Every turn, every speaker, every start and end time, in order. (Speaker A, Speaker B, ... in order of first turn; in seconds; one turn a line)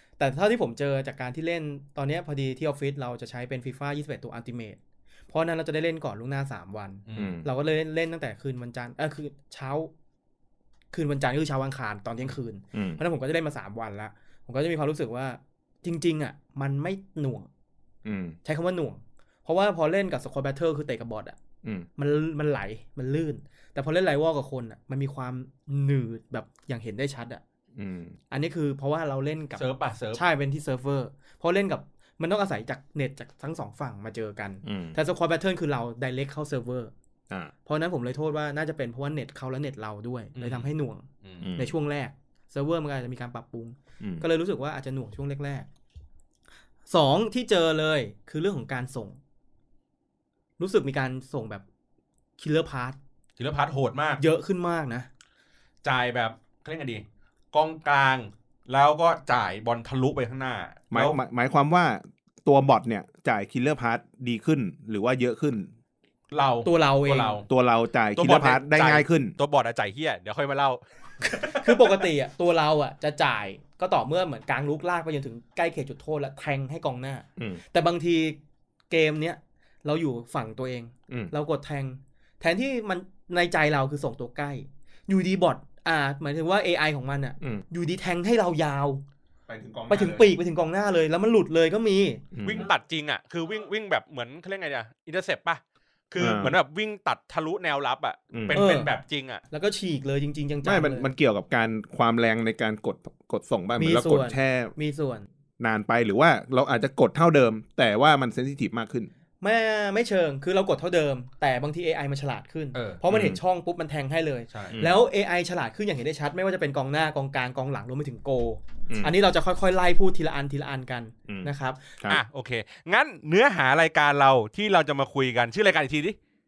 Speaker A: 0.2-4.8
Speaker A: 5.3-9.9
Speaker B: 7.1-7.4
Speaker C: 7.1-7.5
Speaker A: 10.9-17.5
Speaker C: 12.7-13.0
Speaker C: 18.0-18.4
Speaker A: 18.4-21.4
Speaker A: 22.0-27.4
Speaker C: 27.8-28.2
Speaker A: 28.3-36.9
Speaker B: 29.6-30.2
Speaker C: 34.6-35.0
Speaker A: 37.6-45.7
Speaker B: 40.3-40.7
Speaker B: 41.2-41.5
Speaker C: 41.4-41.7
Speaker C: 44.0-44.2
Speaker A: 46.9-49.2
Speaker A: 50.6-51.6
Speaker A: 52.4-53.0
Speaker B: 53.4-54.2
Speaker A: 54.2-55.1
Speaker B: 55.8-61.2
Speaker C: 60.9-65.7
Speaker B: 66.3-67.5
Speaker A: 66.6-67.4
Speaker C: 67.5-69.3
Speaker B: 68.1-72.0
Speaker A: 71.5-78.4
Speaker A: 78.9-89.0
Speaker C: 89.5-90.3
Speaker A: 89.9-92.2
Speaker C: 92.3-92.7
Speaker B: 92.4-99.4
Speaker C: 96.2-96.5
Speaker C: 98.3-98.6
Speaker A: 98.5-98.9
Speaker A: 99.5-101.1
Speaker C: 100.6-104.7
Speaker A: 103.8-105.3
Speaker C: 105.6-109.1
Speaker A: 109.4-121.9
Speaker B: 112.7-113.0
Speaker C: 113.1-113.4
Speaker B: 114.5-114.8
Speaker C: 114.7-115.0
Speaker C: 118.9-119.1
Speaker C: 121.3-122.2
Speaker B: 122.1-126.2